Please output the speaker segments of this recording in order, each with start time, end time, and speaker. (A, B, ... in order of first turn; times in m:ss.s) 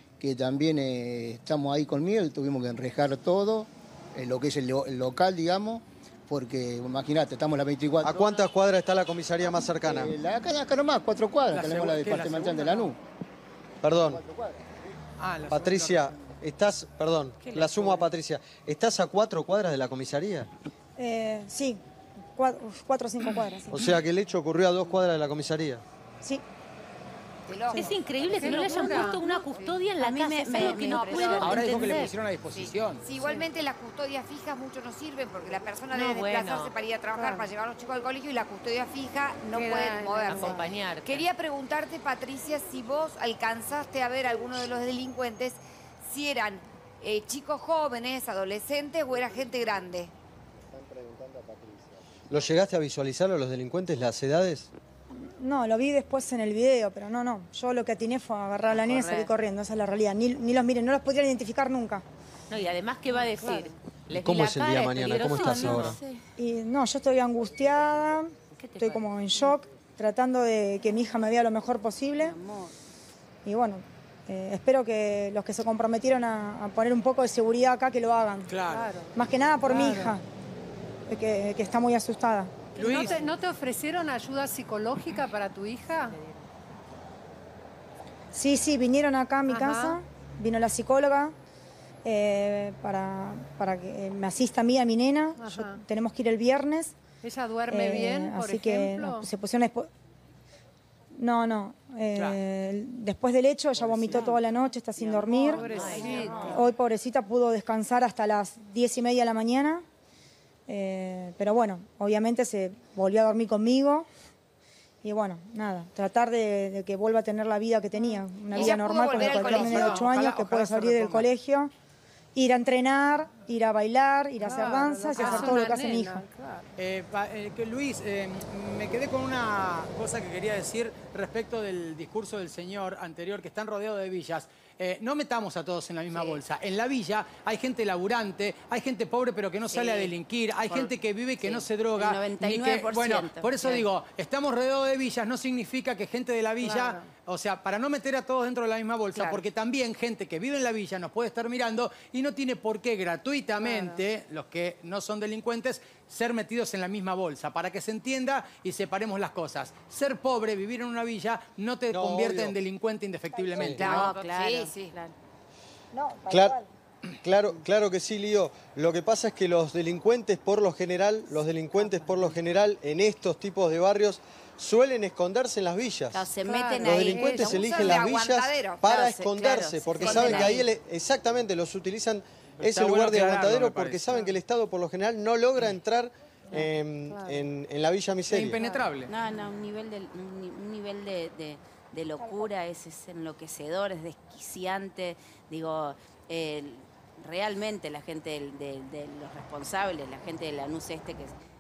0:00.2-0:08.3 A
0:08.0-0:10.1 B
0:09.8-0:13.0 A
0:11.5-0:12.9 C
0:13.8-0:14.2 B
0:14.0-0:14.6 A
0:15.2-0:16.1 C
0:15.5-0:20.5 B
0:21.0-0:21.8 D
0:22.3-0:24.0 D
0:23.7-0:25.8 B
0:27.5-0:29.8 E
0:27.7-0:32.1 F
0:28.3-0:29.2 G
0:30.0-0:32.1 H
0:30.7-0:32.0 E
0:30.9-0:33.0 C
0:32.5-0:50.1 E
0:35.9-0:36.7 F
0:37.2-0:37.5 G
0:39.6-0:40.7 G
0:40.3-0:41.2 F
0:52.3-0:54.7 B
0:55.1-1:02.0 D
0:58.8-0:59.3 H
1:02.5-1:06.2 F
1:03.4-1:03.7 G
1:04.1-1:06.0 B
1:05.3-1:05.8 H
1:06.4-1:12.4 D
1:08.6-1:09.0 F
1:12.2-1:12.8 H
1:13.4-1:18.6 D
1:18.5-1:18.9 C
1:18.7-1:19.1 G
1:19.1-1:20.2 D
1:19.7-1:20.2 G
1:21.1-1:22.8 D
1:22.8-1:26.2 G
1:22.8-1:23.2 C
1:28.3-1:31.3 D
1:29.5-1:30.0 G
1:32.0-1:37.0 D
1:35.4-1:35.8 G
1:37.2-1:39.3 G
1:37.7-1:39.9 D
1:41.1-1:49.8 D
1:44.0-1:44.3 C
1:44.9-1:46.5 G
1:45.6-1:46.7 F
1:50.7-1:54.1 D
1:55.0-2:01.7 D
1:58.5-2:00.1 E
1:59.2-2:01.3 C
2:02.4-2:06.2 D
2:04.4-2:06.7 G
2:06.8-2:44.1 C
2:16.1-2:16.4 H
2:19.7-2:20.2 H
2:20.7-2:23.8 H
2:26.6-2:27.1 G
2:29.1-2:29.4 H
2:33.6-2:34.0 G
2:41.9-2:42.6 B
2:43.3-2:43.8 D
2:43.6-2:43.9 B
2:43.7-2:45.1 E
2:43.8-2:45.1 H
2:45.9-2:46.7 D
2:47.2-2:56.2 B
2:56.1-2:57.7 H
2:56.4-2:58.1 G
2:56.8-3:08.6 B
2:57.6-3:00.4 E
2:59.1-3:00.7 H
3:02.6-3:04.3 C
3:06.5-3:07.5 G
3:08.3-3:09.1 C
3:08.6-3:08.9 G
3:09.1-3:21.4 H
3:12.2-3:12.5 D